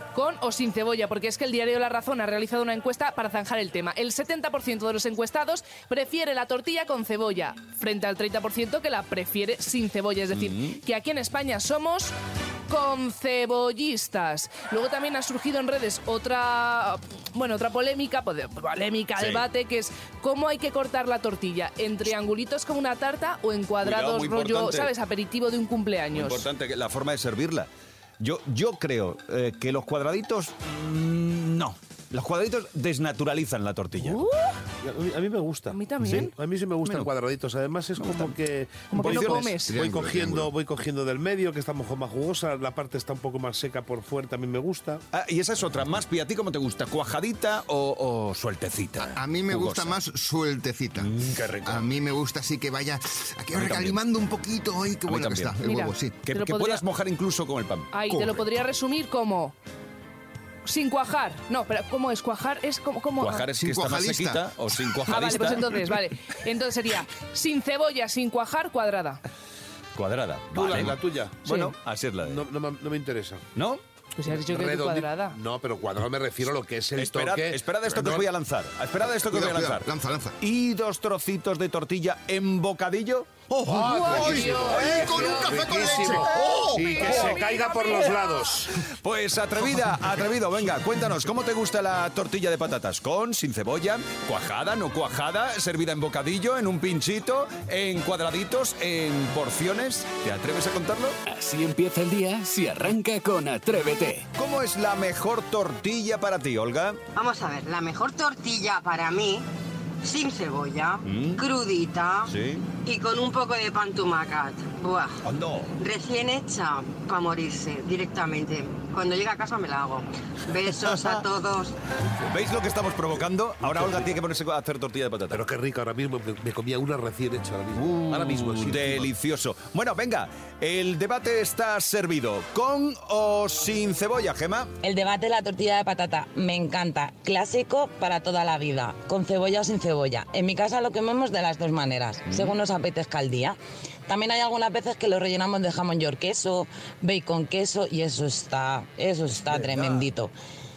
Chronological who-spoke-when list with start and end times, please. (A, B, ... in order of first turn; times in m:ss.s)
0:00.1-0:12.1 A
0:10.3-0:10.8 B
0:12.7-0:26.4 A
0:19.2-0:19.4 B
0:23.8-0:24.9 B
0:26.1-0:27.7 B
0:28.2-0:34.2 B
0:34.0-0:34.5 A
0:34.8-0:45.0 C
0:35.7-0:36.3 A
0:36.8-0:37.1 B
0:38.0-0:38.3 B
0:38.9-0:39.5 B
0:38.9-0:39.8 A
0:39.7-0:40.5 D
0:45.1-0:50.0 B
0:49.1-0:51.1 D
0:51.0-0:51.9 B
0:51.6-0:56.1 D
0:53.5-0:54.0 B
0:55.1-0:55.6 B
0:55.6-0:56.8 A
0:56.2-0:58.2 B
0:57.9-0:59.6 A
1:00.6-1:03.4 A
1:03.2-1:05.9 B
1:03.6-1:04.4 D
1:05.1-1:09.2 A
1:09.9-1:12.4 B
1:10.5-1:11.4 C
1:11.4-1:11.7 A
1:12.2-1:13.4 C
1:13.6-1:13.8 B
1:14.2-1:15.4 A
1:14.3-1:18.3 C
1:17.0-1:19.9 B
1:19.2-1:20.4 D
1:20.4-1:23.4 B
1:23.5-1:27.1 D
1:23.6-1:28.7 C
1:23.8-1:25.7 A
1:26.4-1:28.6 A
1:29.0-1:41.2 B
1:41.3-1:44.2 E
1:44.3-1:47.0 B
1:47.1-1:49.4 F
1:50.0-1:52.3 F
1:51.0-1:51.4 B
1:52.3-1:52.7 B
1:52.8-1:55.2 F
1:55.2-1:55.7 B
1:55.8-2:01.7 F
2:00.7-2:01.2 B
2:02.3-2:05.4 B
2:03.6-2:04.1 C
2:05.3-2:09.1 C
2:07.8-2:14.7 B
2:14.8-2:30.3 G
2:22.3-2:22.6 B
2:29.5-2:30.0 B